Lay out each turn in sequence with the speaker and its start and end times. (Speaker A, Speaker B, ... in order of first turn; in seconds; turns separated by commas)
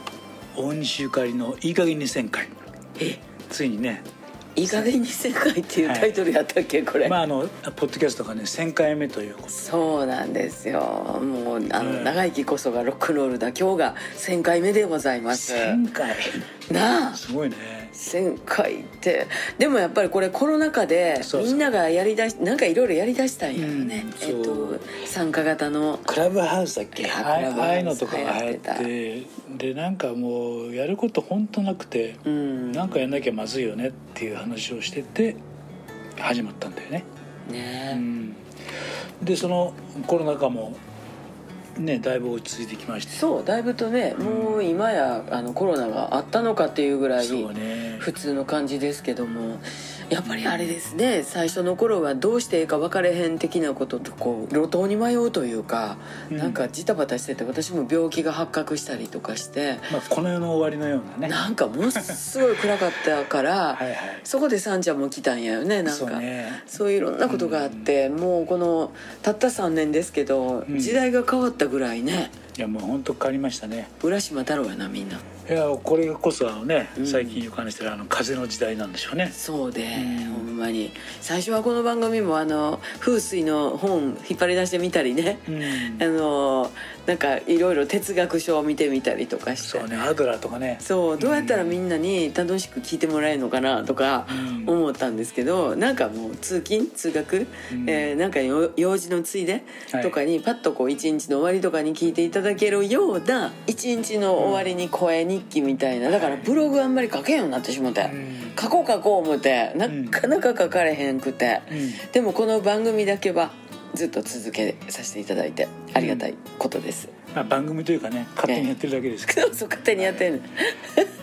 Speaker A: 0.5-2.5, Speaker A: 3.5-4.0, Speaker B: 4.5-7.2, Speaker A: 5.8-6.1, Speaker A: 7.0-9.5, Speaker B: 9.5-15.8, Speaker A: 11.8-12.2, Speaker A: 15.3-16.4, Speaker B: 16.7-17.2, Speaker A: 17.1-17.9, Speaker B: 17.9-26.1, Speaker A: 21.2-21.6, Speaker A: 23.6-24.8, Speaker A: 26.1-35.4, Speaker B: 26.9-28.9, Speaker B: 32.2-33.1, Speaker A: 36.2-37.1, Speaker B: 37.5-38.0, Speaker A: 37.9-38.4, Speaker A: 39.2-40.8, Speaker A: 41.8-43.2, Speaker B: 43.1-60.0, Speaker A: 44.2-44.8, Speaker A: 47.2-48.1, Speaker A: 50.2-50.7, Speaker A: 56.3-56.6, Speaker A: 59.9-61.4, Speaker B: 61.3-72.4, Speaker A: 62.0-62.8, Speaker A: 63.7-64.2, Speaker A: 65.8-66.6, Speaker A: 67.2-67.9, Speaker A: 70.7-71.0, Speaker A: 72.5-73.9, Speaker B: 74.0-75.2, Speaker A: 75.5-79.3, Speaker B: 77.0-77.4, Speaker B: 79.3-89.9, Speaker A: 79.9-80.5, Speaker A: 85.5-86.0, Speaker A: 89.6-91.8, Speaker B: 90.8-117.1, Speaker A: 94.3-94.8, Speaker A: 97.7-98.1, Speaker A: 99.9-100.2, Speaker A: 104.4-104.7, Speaker A: 106.1-106.4, Speaker A: 108.0-108.6, Speaker A: 109.9-110.2, Speaker A: 111.7-112.0, Speaker A: 115.9-116.3, Speaker A: 117.3-120.2, Speaker B: 119.3-121.1